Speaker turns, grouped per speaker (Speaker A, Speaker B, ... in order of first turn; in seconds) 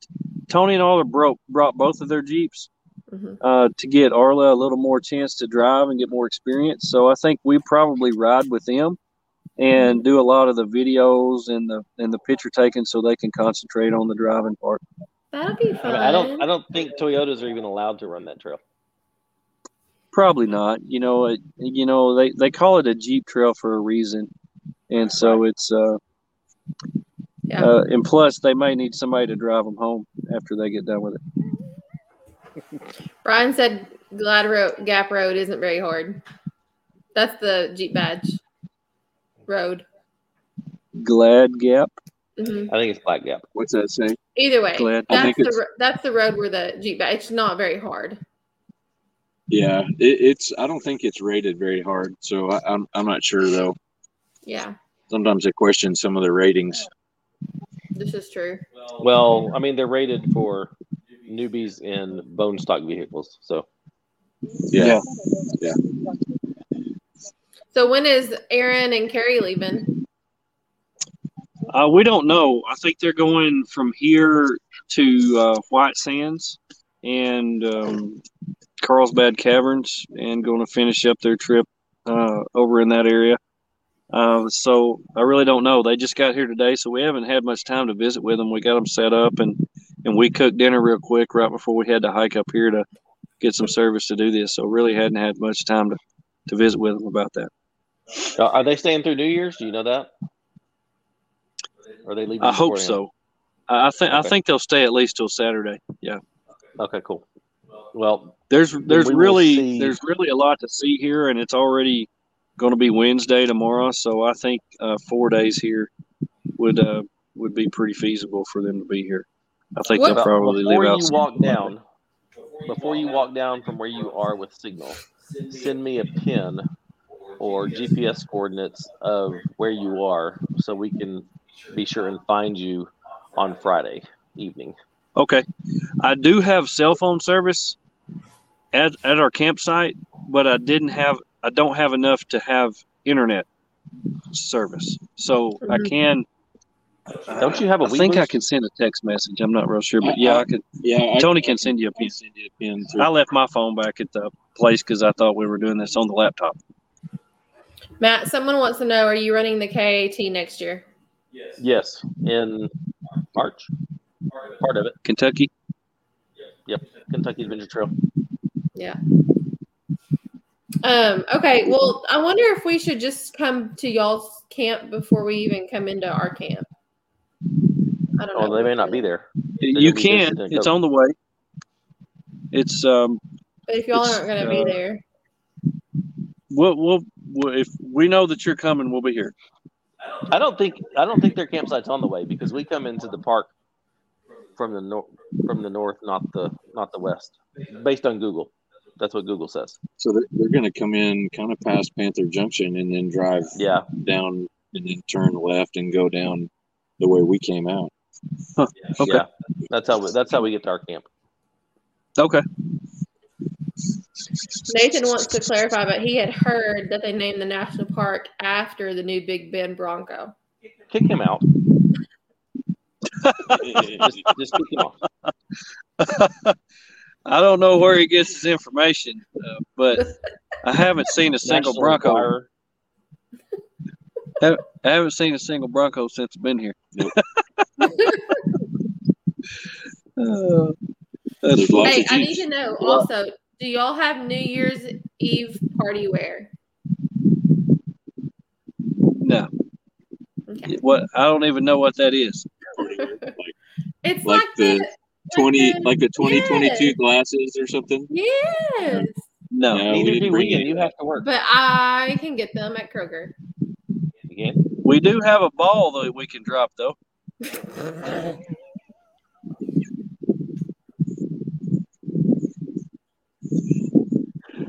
Speaker A: 0.5-2.7, 3.4-9.0, 9.6-14.8, 20.1-24.3, 24.9-26.0, 27.6-31.2, 41.0-41.9, 44.8-45.4, 64.8-65.0, 71.7-78.2, 78.8-83.4, 84.1-92.8, 93.4-97.5, 102.4-103.1, 103.7-106.2, 108.5-115.9, 116.6-121.2, 135.2-135.4, 136.0-137.8, 138.7-143.5, 144.3-146.3, 147.3-150.6, 151.2-152.1, 153.0-156.6, 165.1-165.5, 179.6-181.2, 182.5-183.2, 183.9-184.8, 186.5-189.3, 208.6-209.2, 212.2-212.4, 223.2-223.8, 226.0-226.6, 227.3-230.1, 230.6-232.3, 234.4-237.9, 240.2-240.8, 241.4-241.9, 249.2-249.5, 250.7-252.5, 259.5-259.9, 264.8-267.0
Speaker B: 3.1-3.4, 9.7-10.0, 15.3-16.5, 33.2-36.2, 37.1-38.4, 39.5-39.9, 42.4-42.7, 44.4-48.2, 54.5-54.8, 58.0-58.6, 67.7-70.0, 120.0-120.2, 145.7-145.9, 158.0-160.8, 170.8-176.7, 178.2-179.1, 183.7-185.0, 214.7-220.3, 237.8-238.4, 241.8-246.5, 250.5-250.8, 254.0-256.9, 258.1-259.2, 261.2-263.3
Speaker C: 15.8-18.6, 42.7-43.4, 59.0-60.7, 61.3-63.7, 98.3-100.1, 102.0-103.0, 104.1-104.3, 106.8-107.2, 107.9-110.0, 120.0-121.8, 122.6-126.7, 127.4-134.8, 147.3-148.3, 161.6-162.7, 163.3-163.7, 164.6-165.0, 166.7-167.9, 178.3-180.7, 190.3-193.5, 194.6-199.8, 203.6-203.9, 209.0-211.1, 220.9-221.4, 223.7-225.0, 231.4-232.5, 259.9-261.3, 264.3-264.6
Speaker D: 43.5-44.2, 45.1-45.6, 49.5-53.8, 55.1-56.9, 64.7-65.0, 150.0-153.1, 200.0-207.9, 223.6-224.2, 241.5-242.4, 252.8-253.6, 254.2-258.1, 258.8-259.1, 259.7-260.9